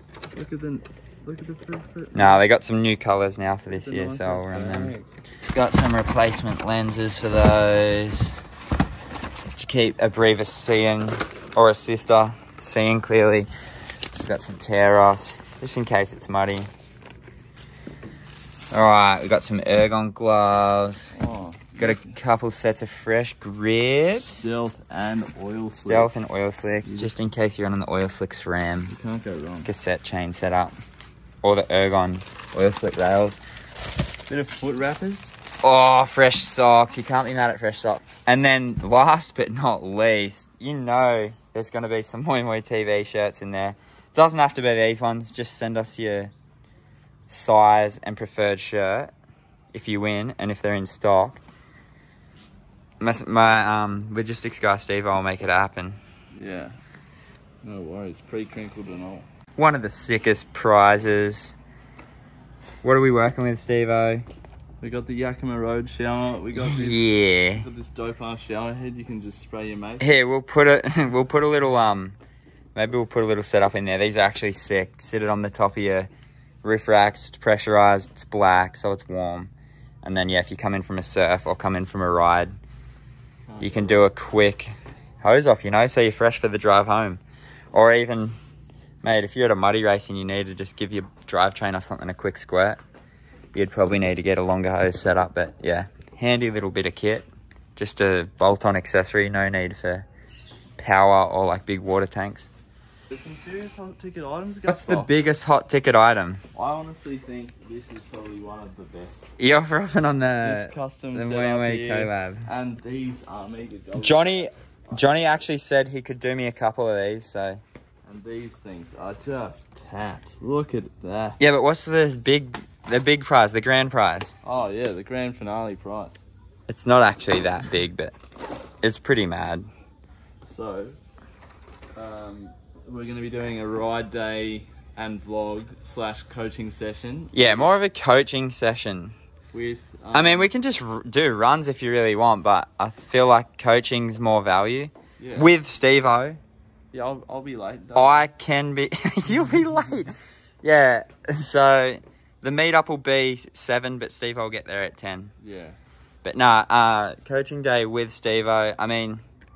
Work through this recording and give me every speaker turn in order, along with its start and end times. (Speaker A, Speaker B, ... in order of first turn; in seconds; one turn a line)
Speaker A: 0.3-2.4
Speaker B: 2.1-4.9
Speaker A: 3.7-5.1
Speaker B: 5.5-8.4
Speaker B: 9.5-13.5
Speaker B: 14.1-16.7
Speaker B: 18.7-21.1
Speaker A: 21.1-22.2
Speaker B: 21.8-24.5
Speaker A: 24.4-26.1
Speaker B: 25.8-28.9
Speaker A: 26.8-27.1
Speaker A: 28.9-29.7
Speaker B: 29.6-30.7
Speaker B: 31.4-33.4
Speaker A: 34.3-35.3
Speaker B: 35.6-46.3
Speaker B: 47.3-49.1
Speaker B: 49.7-51.4
Speaker B: 53.0-56.0
Speaker A: 56.3-56.8
Speaker A: 57.6-59.2
Speaker B: 59.5-61.5
Speaker B: 62.8-64.3
Speaker A: 64.8-67.0
Speaker B: 66.5-67.7
Speaker A: 67.6-70.1
Speaker B: 70.0-72.2
Speaker B: 72.7-76.1
Speaker B: 76.6-79.5
Speaker B: 80.0-82.5
Speaker A: 83.5-84.1
Speaker B: 83.6-87.2
Speaker B: 87.7-88.3
Speaker B: 89.0-92.8
Speaker B: 93.5-100.1
Speaker B: 100.8-102.5
Speaker A: 103.1-105.2
Speaker B: 104.7-106.4
Speaker A: 106.5-109.3
Speaker B: 109.4-112.4
Speaker A: 110.4-114.4
Speaker B: 114.0-117.6
Speaker A: 118.0-121.4
Speaker B: 121.4-124.3
Speaker A: 124.4-126.2
Speaker B: 126.7-128.1
Speaker B: 128.8-129.7
Speaker A: 130.4-131.0
Speaker A: 131.9-137.7
Speaker B: 137.3-139.2
Speaker A: 139.5-140.5
Speaker B: 140.1-146.4
Speaker A: 145.2-145.5
Speaker A: 146.9-148.3
Speaker B: 147.9-155.3
Speaker A: 155.4-155.8
Speaker B: 156.2-159.2